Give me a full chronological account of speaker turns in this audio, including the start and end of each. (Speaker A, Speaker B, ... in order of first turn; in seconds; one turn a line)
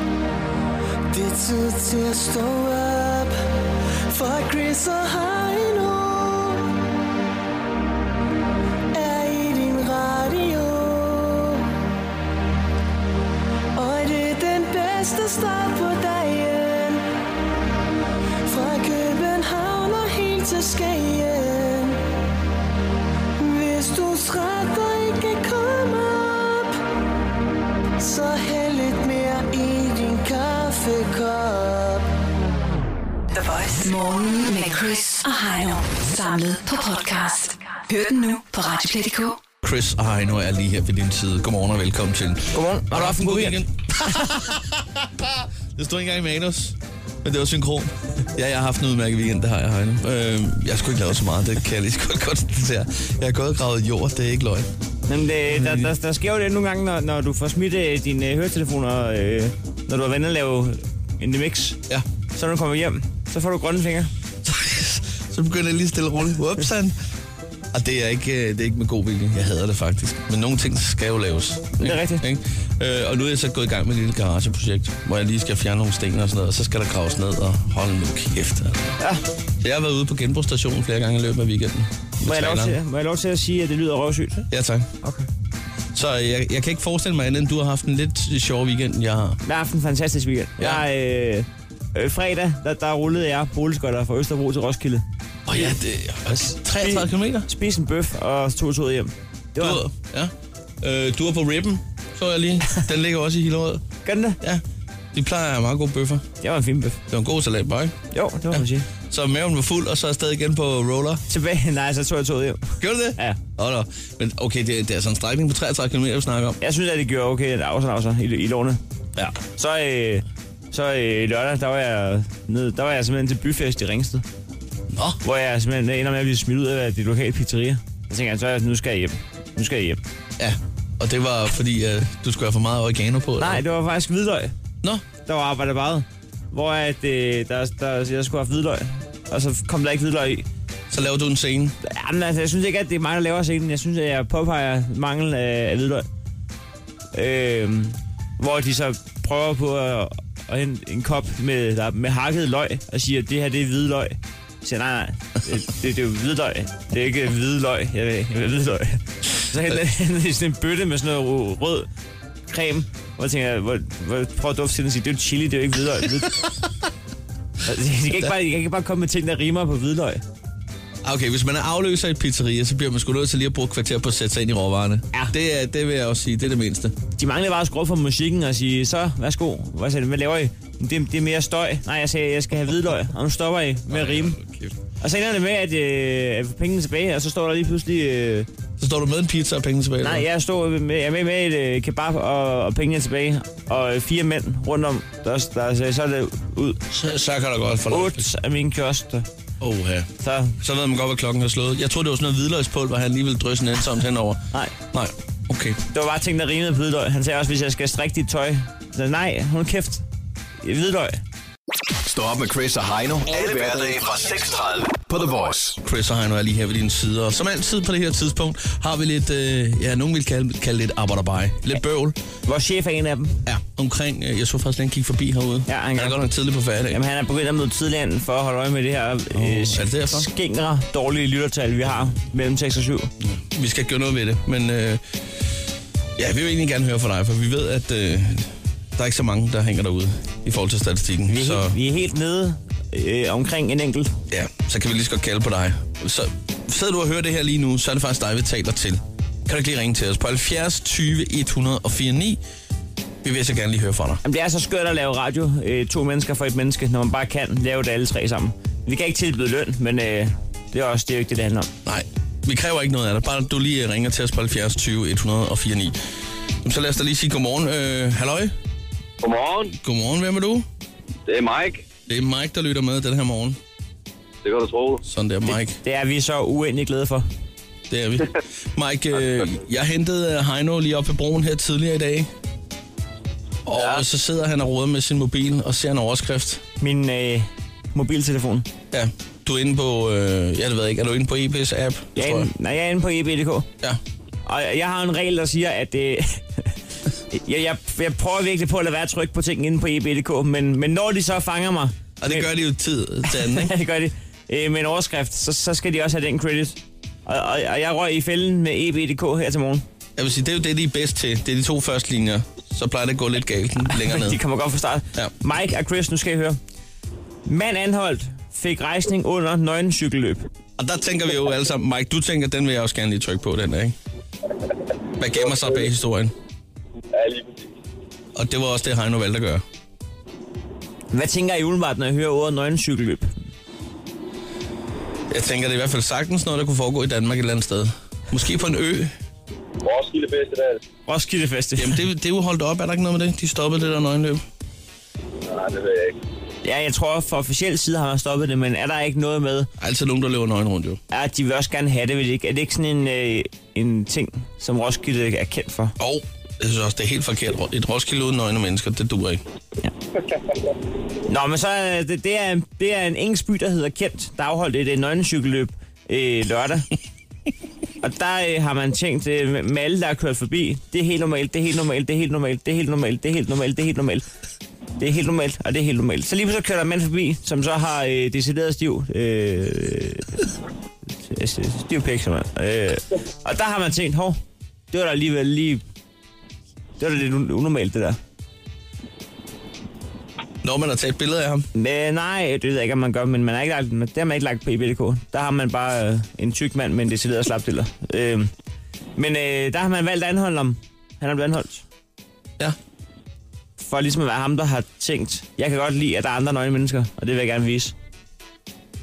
Speaker A: 1.1-3.4
Speaker A: 4.1-6.7
Speaker A: 8.9-11.7
Speaker A: 13.8-17.1
Speaker A: 18.5-22.0
Speaker A: 23.4-26.8
Speaker A: 28.0-32.1
Speaker B: 33.4-39.4
Speaker C: 39.6-54.7
Speaker D: 42.5-43.6
Speaker D: 55.1-61.8
Speaker C: 55.5-55.9
Speaker D: 62.3-64.1
Speaker C: 64.4-67.0
Speaker C: 67.7-78.9
Speaker D: 71.8-72.2
Speaker D: 79.0-79.2
Speaker C: 79.6-82.8
Speaker D: 82.2-84.5
Speaker C: 84.5-84.9
Speaker C: 85.9-89.4
Speaker D: 89.4-95.8
Speaker C: 95.5-97.5
Speaker D: 96.3-99.8
Speaker C: 99.6-103.8
Speaker D: 104.0-104.4
Speaker C: 105.1-106.2
Speaker D: 106.4-107.0
Speaker C: 107.1-108.0
Speaker D: 108.1-108.9
Speaker C: 108.5-111.2
Speaker D: 111.3-113.4
Speaker C: 112.8-116.6
Speaker D: 116.6-118.8
Speaker D: 119.6-124.2
Speaker C: 124.9-125.2
Speaker D: 125.2-130.0
Speaker C: 130.4-133.6
Speaker D: 133.4-134.5
Speaker D: 135.3-140.5
Speaker C: 140.9-141.8
Speaker D: 141.8-146.1
Speaker D: 147.1-161.9
Speaker D: 162.5-166.4
Speaker D: 167.7-170.2
Speaker C: 171.0-177.0
Speaker D: 177.2-184.4
Speaker C: 183.9-184.8
Speaker D: 185.0-188.5
Speaker C: 188.8-190.2
Speaker D: 190.0-196.8
Speaker C: 196.9-198.3
Speaker D: 197.9-199.3
Speaker C: 199.6-205.8
Speaker D: 200.2-200.6
Speaker D: 205.9-210.0
Speaker D: 210.6-211.2
Speaker E: 212.0-215.8
Speaker C: 213.3-214.0
Speaker C: 215.8-222.2
Speaker D: 222.5-223.4
Speaker C: 223.5-227.0
Speaker D: 225.7-226.2
Speaker D: 226.9-233.1
Speaker C: 229.3-230.3
Speaker C: 233.2-235.0
Speaker C: 236.2-241.8
Speaker D: 241.3-244.1
Speaker C: 244.3-252.4
Speaker C: 253.2-254.2
Speaker D: 254.2-261.7
Speaker C: 261.9-266.0
Speaker C: 266.6-268.5
Speaker F: 269.2-269.8
Speaker C: 269.8-270.7
Speaker F: 271.3-271.9
Speaker C: 272.1-273.6
Speaker F: 274.4-275.0
Speaker C: 275.0-275.8
Speaker D: 275.7-277.3
Speaker C: 277.9-282.3
Speaker C: 283.7-286.6
Speaker F: 283.7-284.1
Speaker D: 286.8-288.7
Speaker C: 288.9-292.5
Speaker D: 292.2-293.7
Speaker D: 294.5-296.7
Speaker D: 297.3-302.5
Speaker C: 302.2-303.7
Speaker D: 303.3-309.8
Speaker C: 310.2-314.4
Speaker D: 313.8-316.6
Speaker D: 317.5-320.4
Speaker C: 320.8-323.9
Speaker C: 325.2-326.4
Speaker F: 325.3-325.9
Speaker F: 327.1-327.8
Speaker C: 328.4-329.6
Speaker D: 331.1-333.3
Speaker C: 335.3-339.1
Speaker F: 339.8-340.8
Speaker D: 341.1-342.0
Speaker C: 341.8-344.4
Speaker F: 345.5-346.2
Speaker D: 346.6-349.7
Speaker C: 349.8-351.0
Speaker D: 351.1-356.0
Speaker C: 356.0-359.4
Speaker D: 361.3-366.9
Speaker D: 368.0-374.2
Speaker D: 375.0-380.3
Speaker D: 381.2-384.4
Speaker D: 384.9-385.8
Speaker D: 387.0-388.2
Speaker C: 390.6-391.7
Speaker D: 391.8-398.5
Speaker D: 399.2-401.9
Speaker D: 403.8-407.9